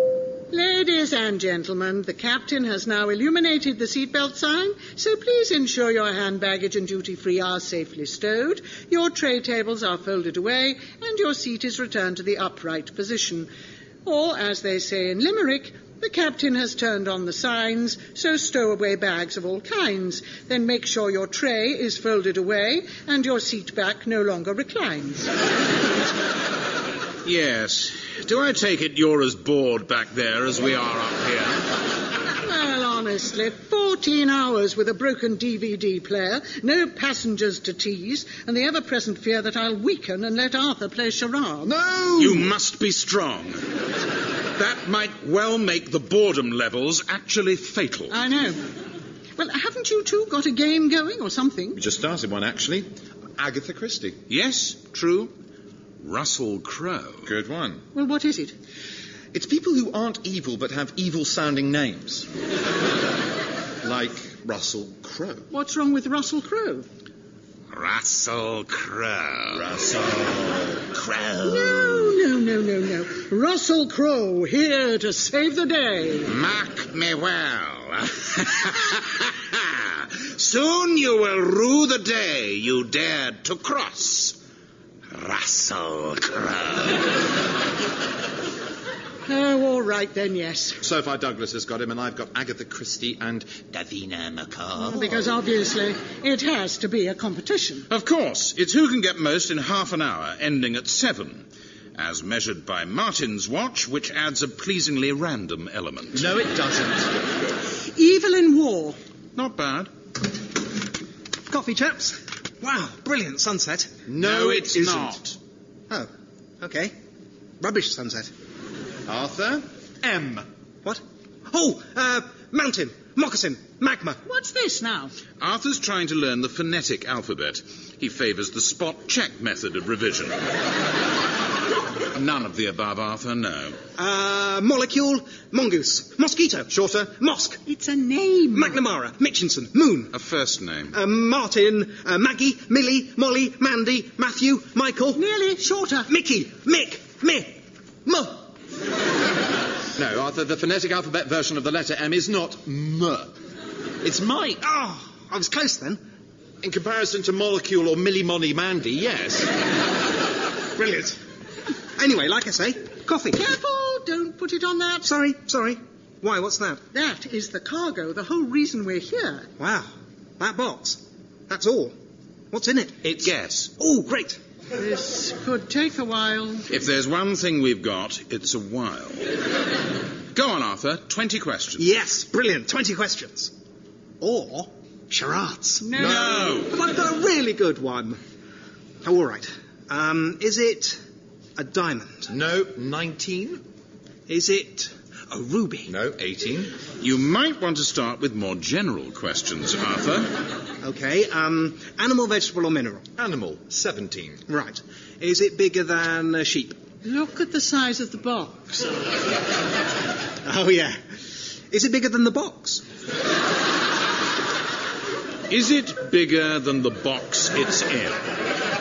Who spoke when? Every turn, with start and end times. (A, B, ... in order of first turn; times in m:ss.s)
0:00.5-0:13.5 A
0:14.0-0:25.3 A
0:27.2-0:31.7 B
0:32.3-0:41.7 A
0:41.6-0:42.5 C
0:42.2-0:43.6 B
0:44.6-0:48.2 B
0:48.1-0:48.6 A
0:49.4-0:51.8 A
0:51.7-0:54.2 C
0:54.3-0:55.3 B
0:56.0-0:57.3 B
0:57.2-0:57.8 C
0:57.9-0:58.5 A
0:59.3-1:02.3 C
1:03.8-1:05.4 C
1:05.5-1:06.9 A
1:07.7-1:09.7 B
1:09.5-1:10.8 C
1:10.9-1:12.1 B
1:11.4-1:16.3 A
1:16.2-1:24.4 B
1:25.1-1:27.1 B
1:29.2-1:30.8 A
1:30.8-1:35.3 C
1:34.8-1:37.8 A
1:37.9-1:46.3 B
1:46.1-1:47.1 C
1:47.9-1:49.0 A
1:49.3-1:49.9 B
1:51.5-1:54.0 D
1:54.1-1:55.1 C
1:54.2-1:55.4 B
1:54.7-1:55.0 D
1:56.6-1:56.9 D
1:57.6-1:58.3 D
1:59.0-2:00.5 C
2:00.8-2:04.2 D
2:04.2-2:05.1 A
2:05.4-2:10.4 B
2:12.0-2:13.8 B
2:14.0-2:17.6 D
2:16.7-2:17.1 C
2:17.6-2:18.8 A
2:18.5-2:20.1 D
2:20.1-2:21.0 B
2:20.9-2:25.2 D
2:25.1-2:26.1 A
2:26.1-2:28.5 D
2:29.9-2:33.3 C
2:34.0-2:34.6 C
2:34.6-2:36.0 D
2:36.6-2:39.5 C
2:40.7-2:41.2 D
2:42.0-2:43.4 D
2:43.3-2:45.1 A
2:45.0-2:46.8 D
2:46.9-2:49.5 A
2:49.6-2:51.9 D
2:52.5-2:54.4 D
2:53.0-2:53.7 B
2:54.7-2:56.7 A
2:56.7-2:59.3 B
3:00.3-3:01.8 B
3:01.8-3:03.5 D
3:04.2-3:08.2 D
3:05.8-3:06.6 A
3:06.0-3:06.7 B
3:06.0-3:06.4 C
3:09.0-3:11.0 D
3:11.6-3:12.3 D
3:12.3-3:13.6 C
3:14.3-3:15.9 D
3:15.8-3:16.7 C
3:17.0-3:20.3 B
3:20.8-3:23.0 D
3:23.2-3:24.4 C
3:24.5-3:26.8 D
3:27.0-3:29.1 A
3:30.4-3:31.0 D
3:31.7-3:32.8 D
3:35.5-3:38.2 B